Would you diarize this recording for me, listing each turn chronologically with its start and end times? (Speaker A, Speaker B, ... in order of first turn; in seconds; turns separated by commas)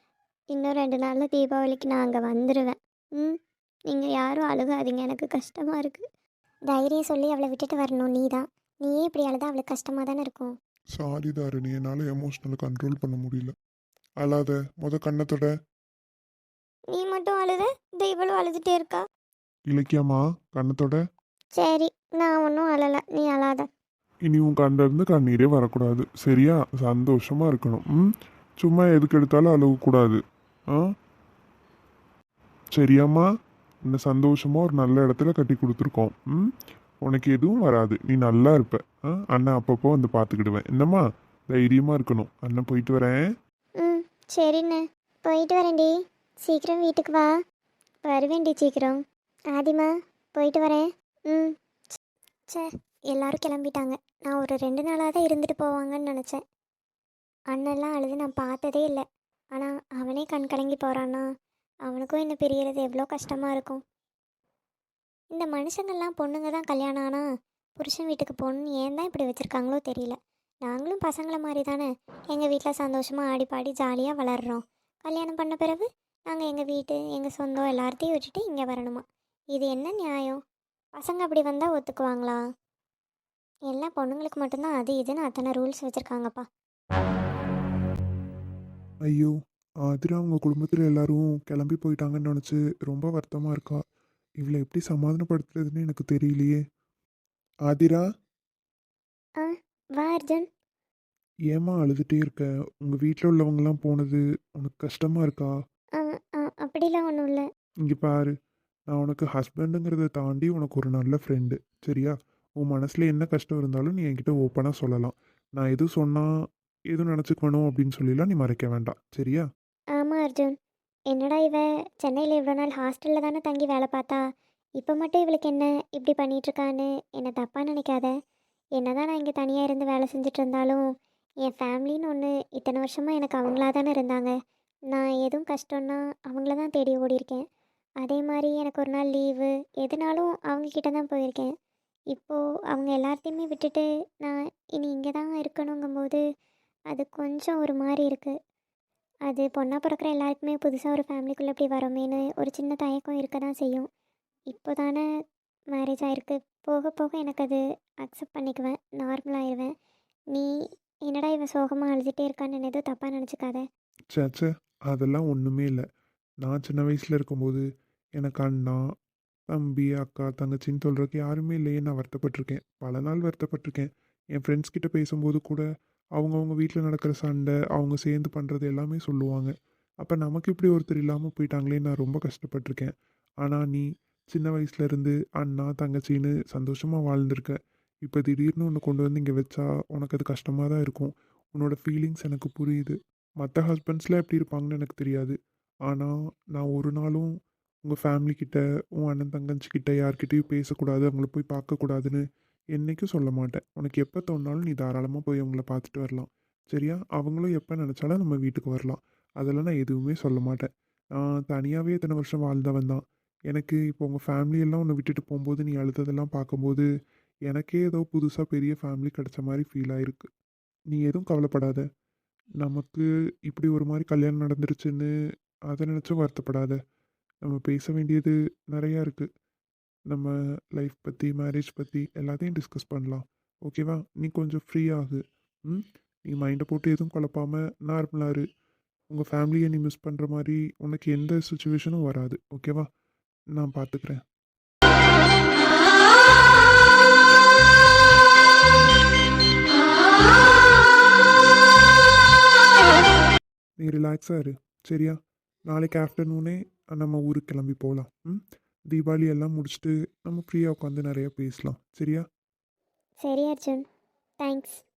Speaker A: 0.5-3.4, Speaker A: 3.9-6.0, Speaker A: 6.7-10.5, Speaker B: 10.9-13.5, Speaker B: 14.2-15.5, Speaker A: 16.9-19.1, Speaker B: 19.7-21.0, Speaker A: 21.6-23.6, Speaker B: 24.2-28.1, Speaker B: 28.6-30.2, Speaker B: 32.7-33.2, Speaker B: 33.9-36.5, Speaker B: 37.0-43.2, Speaker A: 43.8-45.9, Speaker A: 46.4-47.3, Speaker A: 48.1-49.0, Speaker A: 49.5-51.5, Speaker A: 52.5-56.4, Speaker A: 57.5-59.0, Speaker A: 59.5-61.3, Speaker A: 61.9-63.8, Speaker A: 65.3-67.2, Speaker A: 67.8-80.4, Speaker A: 80.9-82.4, Speaker A: 83.7-86.5, Speaker B: 89.0-89.3, Speaker B: 89.8-93.8, Speaker B: 94.4-96.6, Speaker B: 97.7-98.0, Speaker A: 99.4-100.5, Speaker B: 101.5-105.5, Speaker A: 106.0-107.5, Speaker B: 107.8-108.3, Speaker B: 108.9-116.3, Speaker B: 116.9-119.5, Speaker A: 120.0-120.5, Speaker A: 121.1-124.2, Speaker A: 124.8-128.1, Speaker A: 128.8-130.8, Speaker A: 131.4-134.3, Speaker A: 134.9-137.4, Speaker A: 138.0-141.5, Speaker A: 142.1-146.2, Speaker A: 146.9-148.3, Speaker A: 149.3-153.9, Speaker A: 154.5-155.1, Speaker A: 155.7-159.7, Speaker A: 161.1-163.6, Speaker B: 164.1-165.8, Speaker B: 166.4-167.6, Speaker B: 168.2-168.8, Speaker B: 169.5-175.6, Speaker B: 176.2-182.9, Speaker B: 183.4-195.3, Speaker B: 195.9-197.3, Speaker B: 197.8-202.2, Speaker B: 202.8-216.9, Speaker B: 217.5-220.3, Speaker B: 220.9-221.8, Speaker B: 222.6-225.1, Speaker B: 225.7-226.8, Speaker B: 227.5-229.3, Speaker B: 230.1-238.4, Speaker B: 239.1-242.9, Speaker B: 243.6-244.2, Speaker B: 253.8-255.1, Speaker B: 255.7-262.2, Speaker A: 263.2-263.8, Speaker A: 264.4-264.8